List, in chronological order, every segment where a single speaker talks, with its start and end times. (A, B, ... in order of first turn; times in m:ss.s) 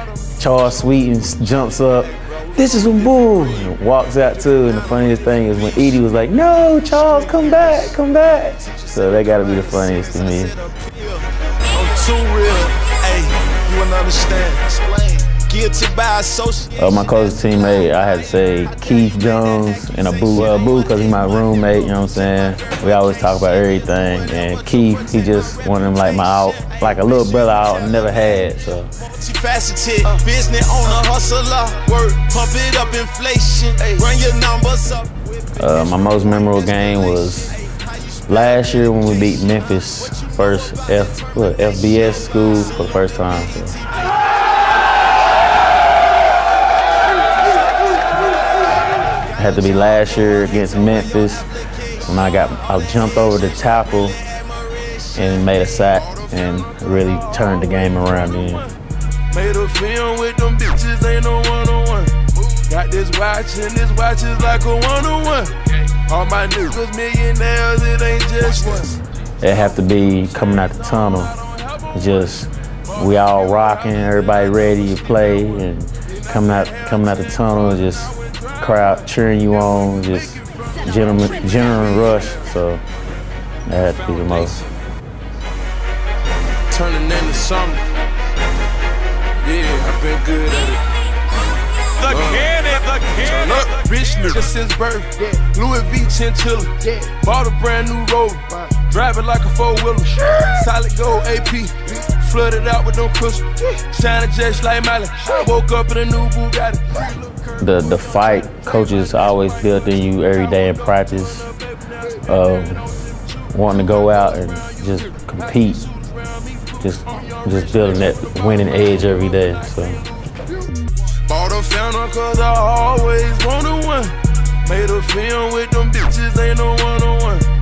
0:00.4-0:10.6 A
0:11.7-0:16.7 B
0:16.8-0:28.9 A
0:30.1-0:31.7 B
0:33.8-0:34.1 B
0:35.6-0:37.6 A
0:38.3-0:43.8 A
0:49.4-0:51.5 A
0:52.0-0:54.2 A
0:55.1-0:58.6 A
0:59.3-1:02.1 C
1:02.7-1:05.5 C
1:06.1-1:08.9 C
1:09.4-1:11.3 A
1:11.9-1:22.8 A
1:23.7-1:24.6 A
1:26.7-1:27.8 C
1:29.4-1:30.8 C
1:32.0-1:33.7 B
1:32.1-1:32.5 C
1:33.2-1:46.8 C
1:47.6-1:51.5 A
1:52.3-1:52.9 A
1:53.5-1:55.8 A
1:56.8-2:00.0 A
2:01.3-2:04.1 C
2:04.6-2:07.5 C